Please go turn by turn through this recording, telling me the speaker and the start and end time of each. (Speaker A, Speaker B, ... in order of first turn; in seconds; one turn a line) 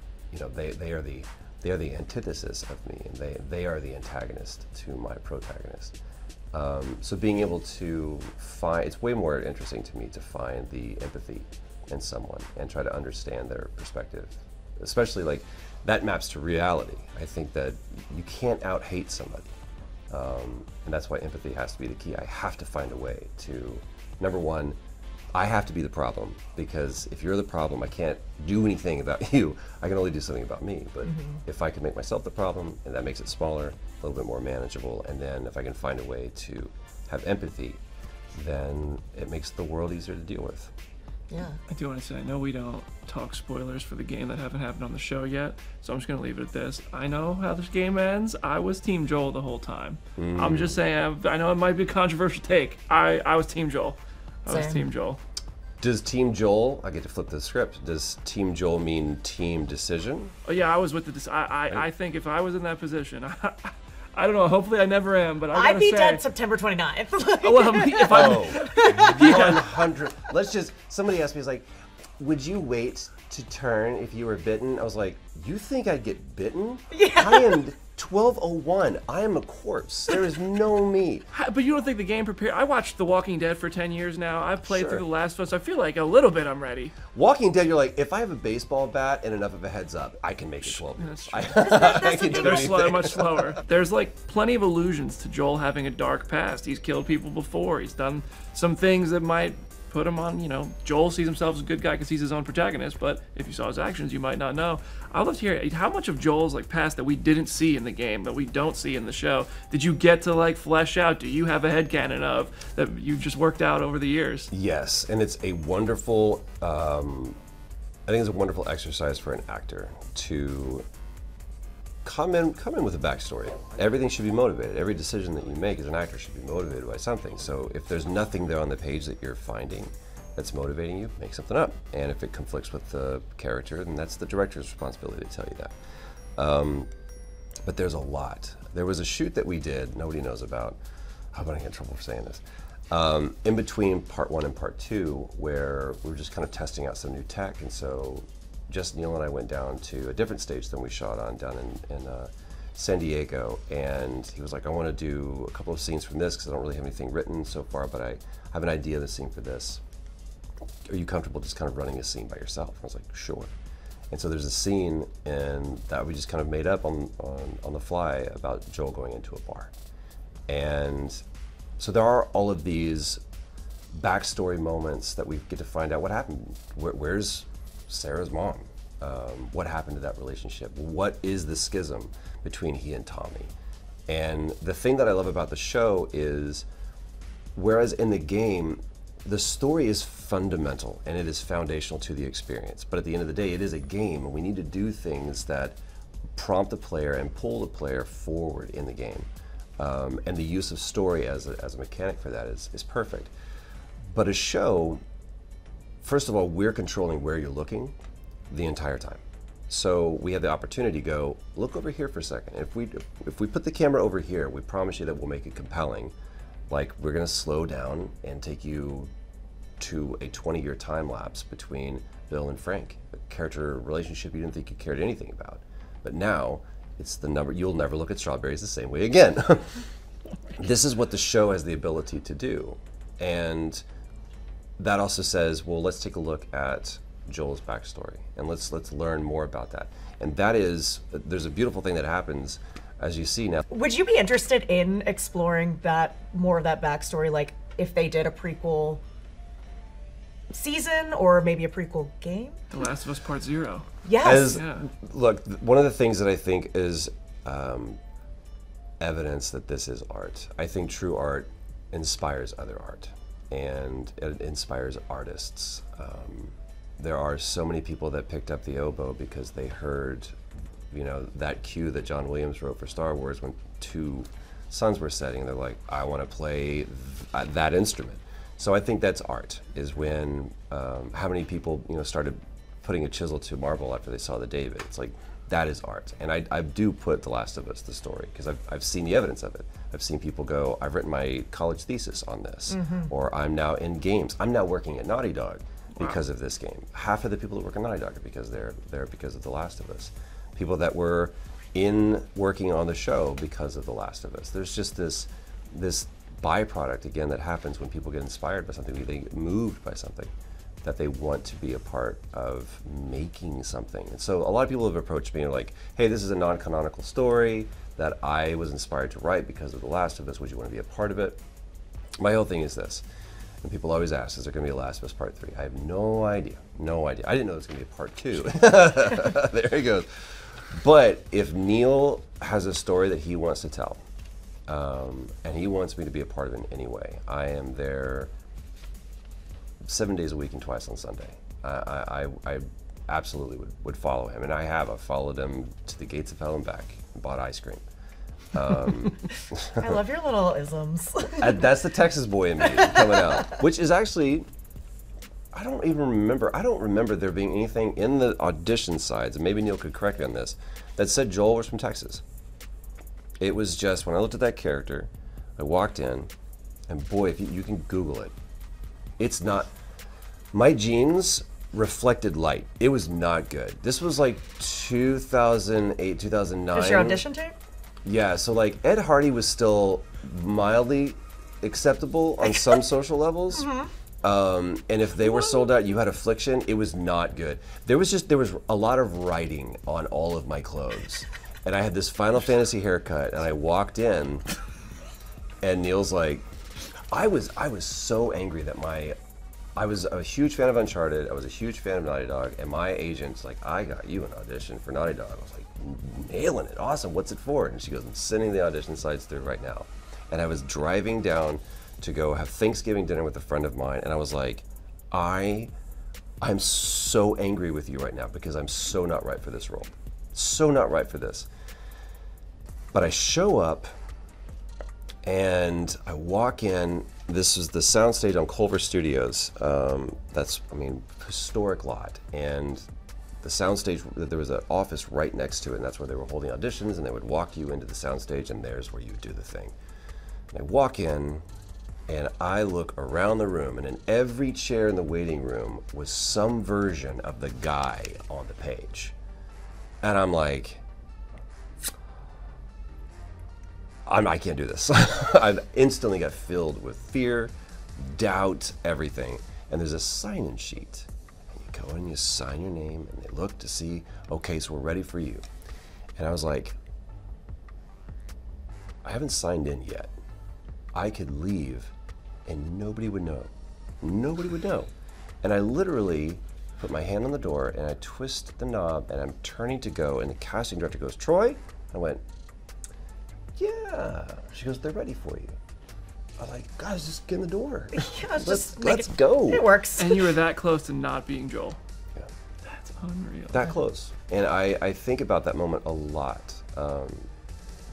Speaker A: 0.3-5.9
Speaker A: 6.5-19.5
Speaker A: 20.1-24.8
Speaker A: 25.3-37.8
Speaker B: 31.1-31.4
Speaker A: 38.3-40.7
Speaker B: 41.3-41.6
Speaker C: 41.7-55.2
Speaker A: 50.1-50.8
Speaker B: 54.5-54.8
Speaker A: 55.8-60.3
Speaker C: 60.4-66.2
Speaker B: 65.5-69.7
Speaker C: 67.4-69.8
Speaker A: 68.1-71.7
Speaker A: 72.2-81.3
Speaker B: 76.9-77.6
Speaker C: 81.3-87.0
Speaker A: 84.6-85.0
Speaker A: 87.1-93.4
Speaker C: 90.6-114.5
Speaker B: 91.8-92.7
Speaker A: 114.5-117.4
Speaker A: 118.1-120.8
Speaker A: 122.0-135.7
Speaker A: 136.4-136.9
Speaker A: 137.6-140.8
Speaker A: 141.3-159.8
Speaker A: 160.9-163.5
Speaker A: 164.1-169.7
Speaker A: 170.5-171.2
Speaker A: 171.8-173.2
Speaker A: 173.9-183.5
Speaker A: 184.1-186.7
Speaker A: 187.6-195.8
Speaker A: 196.3-199.3
Speaker A: 199.8-203.3
Speaker A: 204.1-205.0
Speaker A: 206.0-207.9
Speaker A: 208.5-216.1
Speaker A: 216.7-219.1
Speaker A: 219.8-229.8
Speaker A: 230.5-233.8
Speaker A: 234.8-243.6
Speaker B: 243.7-249.0
Speaker B: 250.5-252.6
Speaker C: 252.7-253.8
Speaker B: 254.0-254.6
Speaker A: 254.2-258.0
Speaker C: 254.4-254.8
Speaker A: 259.0-270.4
Speaker A: 270.9-310.3
Speaker B: 292.7-293.1
Speaker A: 310.8-321.4
Speaker A: 322.2-323.0
Speaker A: 323.6-334.0
Speaker A: 334.7-338.3
Speaker A: 339.8-347.8
Speaker A: 348.5-349.9
Speaker B: 349.8-351.6
Speaker A: 351.4-354.5
Speaker A: 355.5-362.2
Speaker A: 363.4-366.3
Speaker A: 366.9-368.3
Speaker A: 369.2-369.7
Speaker A: 370.5-377.2
Speaker B: 376.7-377.6
Speaker A: 378.0-383.7
Speaker B: 383.6-383.9
Speaker A: 384.2-394.4
Speaker A: 395.6-396.5
Speaker A: 397.1-399.1
Speaker A: 399.8-415.7
Speaker A: 416.4-421.5
Speaker A: 422.9-423.9
Speaker A: 425.2-432.9
Speaker A: 433.4-439.7
Speaker A: 440.5-441.4
Speaker A: 442.1-449.1
Speaker A: 450.0-450.8
Speaker A: 454.1-465.4
Speaker A: 466.1-466.8
Speaker A: 469.0-470.1
Speaker A: 470.9-471.9
Speaker A: 472.4-474.9
Speaker A: 475.4-482.2
Speaker A: 483.6-485.6
Speaker A: 486.4-489.8
Speaker B: 487.9-490.3
Speaker C: 490.0-491.8
Speaker C: 492.6-493.6
Speaker A: 493.5-497.3